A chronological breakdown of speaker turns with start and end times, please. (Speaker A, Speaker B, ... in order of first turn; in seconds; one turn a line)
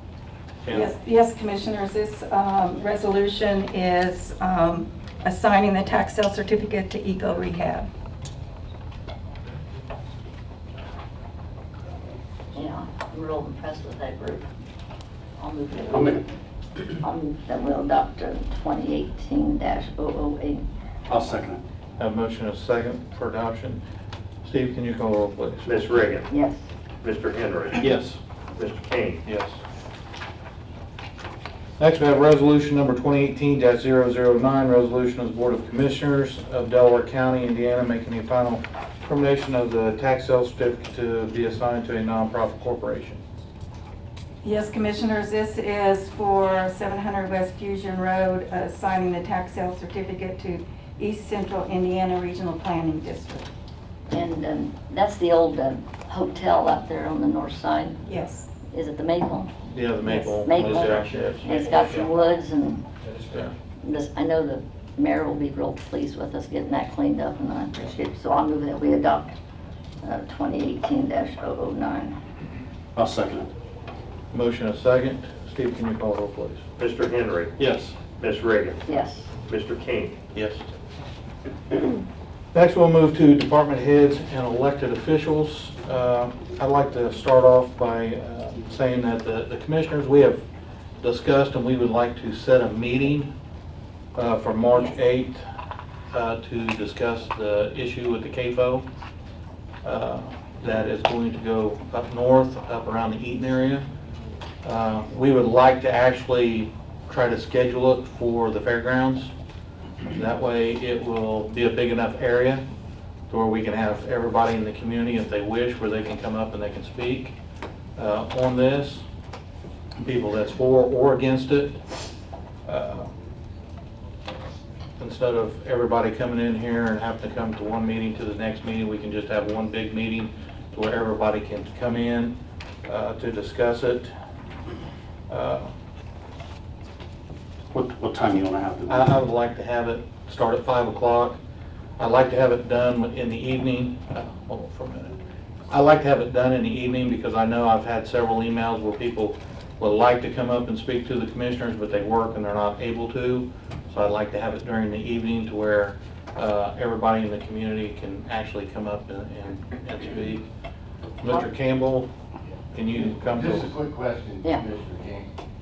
Speaker A: 0.7-0.9
Speaker B: 0.7-7.9
Speaker C: 12.5-14.5
Speaker C: 15.4-16.2
Speaker C: 17.0-20.6
Speaker D: 21.1-21.6
Speaker A: 22.0-23.8
Speaker A: 24.4-25.7
Speaker E: 25.6-26.3
Speaker C: 26.3-26.6
Speaker E: 27.0-27.9
Speaker D: 27.8-28.2
Speaker E: 28.5-29.2
Speaker A: 29.3-29.6
Speaker A: 31.8-43.2
Speaker B: 44.4-53.5
Speaker C: 54.1-58.0
Speaker B: 58.0-58.5
Speaker C: 58.7-59.5
Speaker A: 59.7-62.0
Speaker B: 60.0-60.4
Speaker C: 60.4-62.9
Speaker A: 63.1-63.5
Speaker C: 63.8-69.3
Speaker C: 70.0-72.2
Speaker D: 73.0-73.5
Speaker A: 74.3-76.6
Speaker E: 76.8-77.5
Speaker D: 77.6-78.0
Speaker E: 78.2-78.8
Speaker C: 78.9-79.3
Speaker E: 79.5-80.2
Speaker A: 80.3-80.7
Speaker A: 82.5-90.4
Speaker A: 91.0-93.3
Speaker A: 94.2-95.4
Speaker A: 96.1-98.8
Speaker A: 99.8-103.8
Speaker A: 104.6-109.3
Speaker A: 110.1-112.6
Speaker A: 113.3-117.4
Speaker A: 118.0-119.0
Speaker A: 120.0-121.8
Speaker A: 122.7-123.1
Speaker A: 125.0-132.3
Speaker A: 132.9-134.1
Speaker A: 135.3-135.7
Speaker D: 137.7-138.9
Speaker A: 138.9-141.4
Speaker A: 142.0-145.2
Speaker A: 145.7-160.4
Speaker A: 161.2-162.1
Speaker A: 162.7-163.7
Speaker F: 162.9-165.3